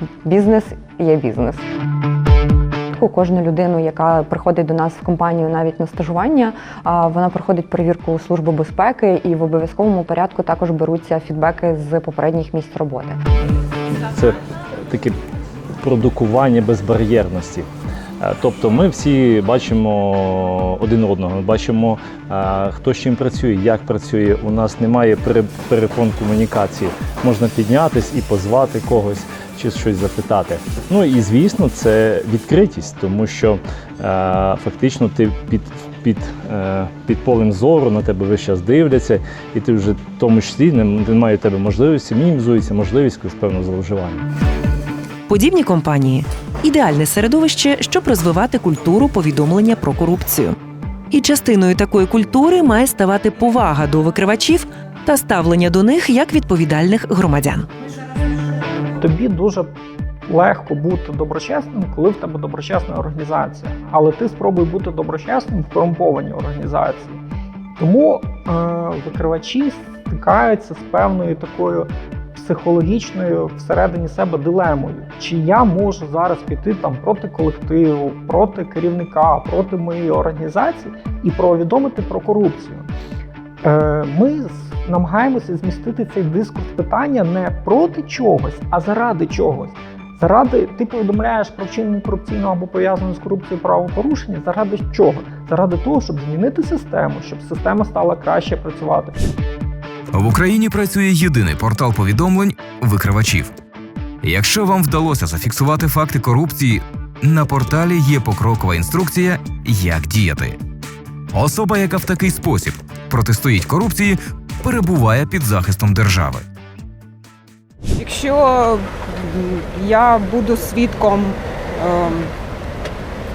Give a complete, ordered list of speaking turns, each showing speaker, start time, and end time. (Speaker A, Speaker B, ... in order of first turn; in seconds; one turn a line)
Speaker A: 0.2-1.6
Speaker A: 2.9-13.2
Speaker B: 14.0-15.2
Speaker B: 15.8-17.7
Speaker B: 18.2-44.2
Speaker C: 45.3-50.6
Speaker C: 51.1-57.7
Speaker D: 59.0-59.7
Speaker D: 60.3-67.2
Speaker D: 67.8-82.9
Speaker D: 83.6-99.2
Speaker E: 100.1-103.5
Speaker E: 104.2-110.6
Speaker E: 111.3-116.5
Speaker F: 118.0-122.3